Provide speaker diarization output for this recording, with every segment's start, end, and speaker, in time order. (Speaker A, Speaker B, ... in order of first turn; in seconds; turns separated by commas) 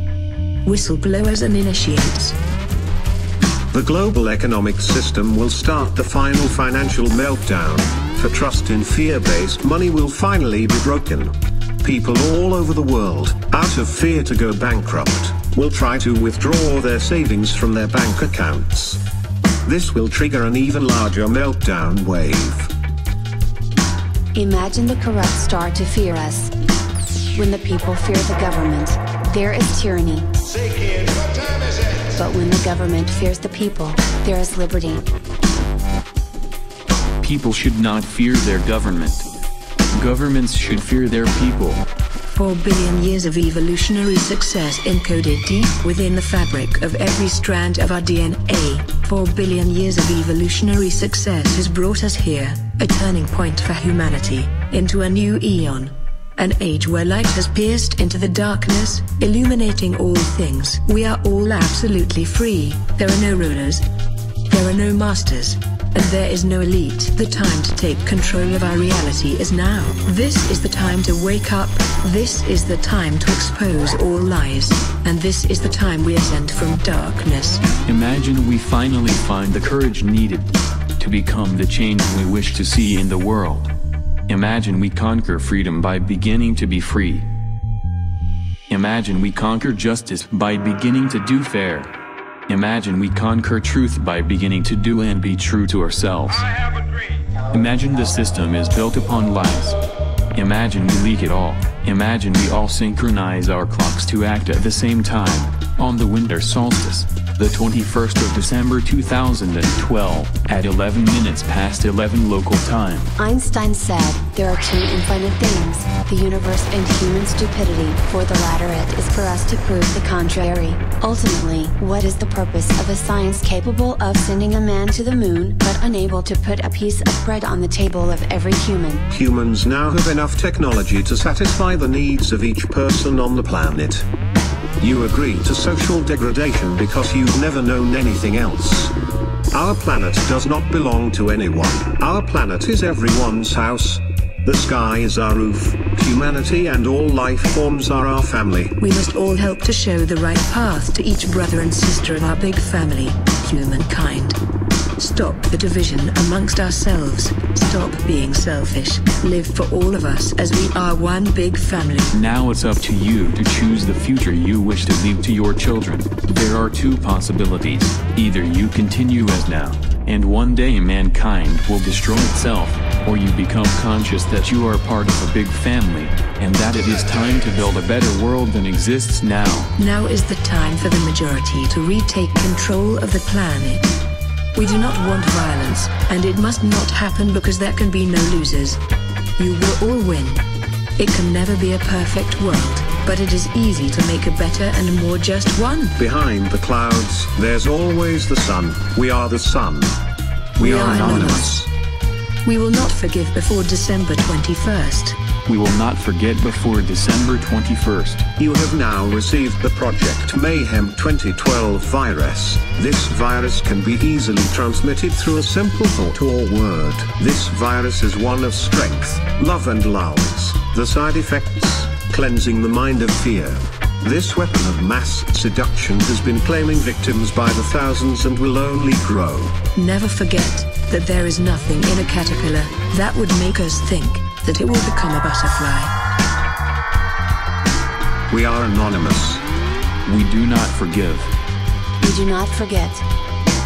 Speaker A: 0.7-2.4, Speaker B: 3.7-19.0, Speaker B: 19.6-22.7, Speaker C: 24.3-26.5, Speaker C: 27.3-30.3, Speaker C: 32.1-35.0, Speaker D: 37.2-39.3, Speaker D: 40.0-41.9, Speaker A: 42.3-63.8, Speaker A: 64.5-77.6, Speaker D: 77.9-83.7, Speaker D: 84.3-87.3, Speaker D: 88.7-91.9, Speaker D: 92.5-96.5, Speaker D: 97.5-99.8, Speaker D: 100.3-113.1, Speaker C: 113.2-129.1, Speaker B: 129.1-134.1, Speaker B: 134.8-138.9, Speaker B: 139.5-148.8, Speaker A: 148.8-154.4, Speaker A: 155.0-162.1, Speaker D: 162.1-179.7, Speaker A: 179.8-183.9, Speaker A: 184.5-188.8, Speaker A: 189.4-190.4, Speaker A: 191.0-196.0, Speaker B: 196.0-200.0, Speaker A: 200.6-201.7, Speaker D: 200.6-201.5, Speaker B: 200.6-201.6, Speaker A: 202.4-205.2, Speaker D: 205.5-208.2, Speaker B: 208.4-229.6, Speaker A: 229.8-235.9, Speaker B: 238.3-239.4, Speaker D: 240.1-241.3, Speaker C: 242.0-243.1